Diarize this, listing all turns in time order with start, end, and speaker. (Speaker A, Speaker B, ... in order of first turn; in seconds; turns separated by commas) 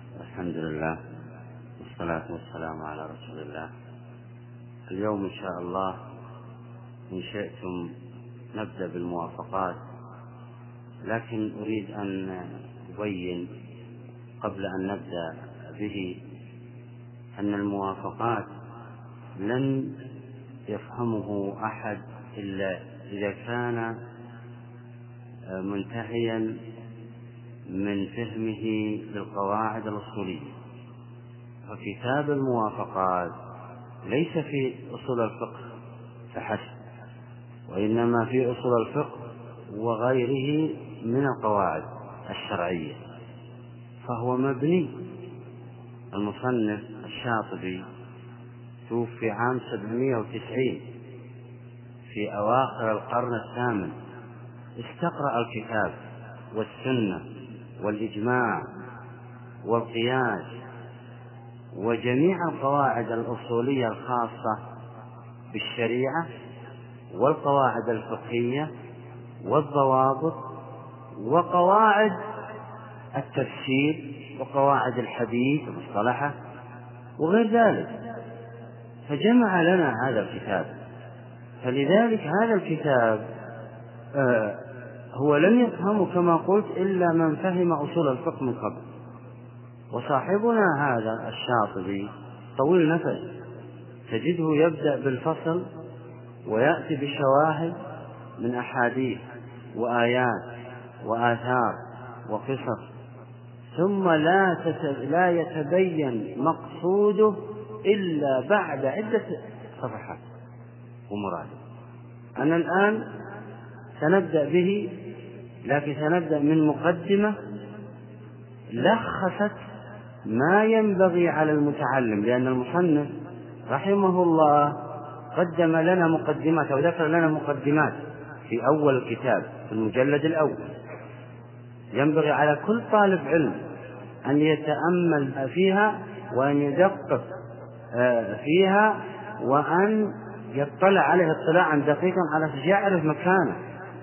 Speaker A: 0.2-1.0, Speaker A: 1.8-3.7, Speaker A: 4.9-6.0, Speaker A: 7.1-7.9, Speaker A: 8.5-9.8, Speaker A: 11.0-13.5, Speaker A: 14.4-16.2, Speaker A: 17.4-18.5, Speaker A: 19.4-20.0, Speaker A: 20.7-23.9, Speaker A: 25.5-26.6, Speaker A: 27.7-30.5, Speaker A: 31.7-33.3, Speaker A: 34.0-35.6, Speaker A: 36.3-36.7, Speaker A: 37.7-43.0, Speaker A: 44.0-45.0, Speaker A: 46.1-47.8, Speaker A: 48.9-50.8, Speaker A: 52.1-53.9, Speaker A: 54.8-55.9, Speaker A: 56.5-57.2, Speaker A: 57.8-58.7, Speaker A: 59.6-60.5, Speaker A: 61.7-64.6, Speaker A: 65.5-66.2, Speaker A: 67.1-68.7, Speaker A: 69.4-70.4, Speaker A: 71.2-72.2, Speaker A: 73.1-76.3, Speaker A: 77.2-77.9, Speaker A: 79.1-80.7, Speaker A: 81.6-83.2, Speaker A: 84.1-88.8, Speaker A: 89.9-93.3, Speaker A: 94.1-95.7, Speaker A: 96.5-97.7, Speaker A: 98.4-99.2, Speaker A: 99.7-100.4, Speaker A: 101.0-102.8, Speaker A: 103.7-110.2, Speaker A: 111.1-111.6, Speaker A: 112.4-113.0, Speaker A: 114.0-115.0, Speaker A: 115.6-117.4, Speaker A: 118.7-119.6, Speaker A: 120.3-123.1, Speaker A: 123.7-124.8, Speaker A: 125.3-128.0, Speaker A: 128.5-130.7, Speaker A: 131.9-133.6, Speaker A: 134.2-137.2, Speaker A: 137.9-143.6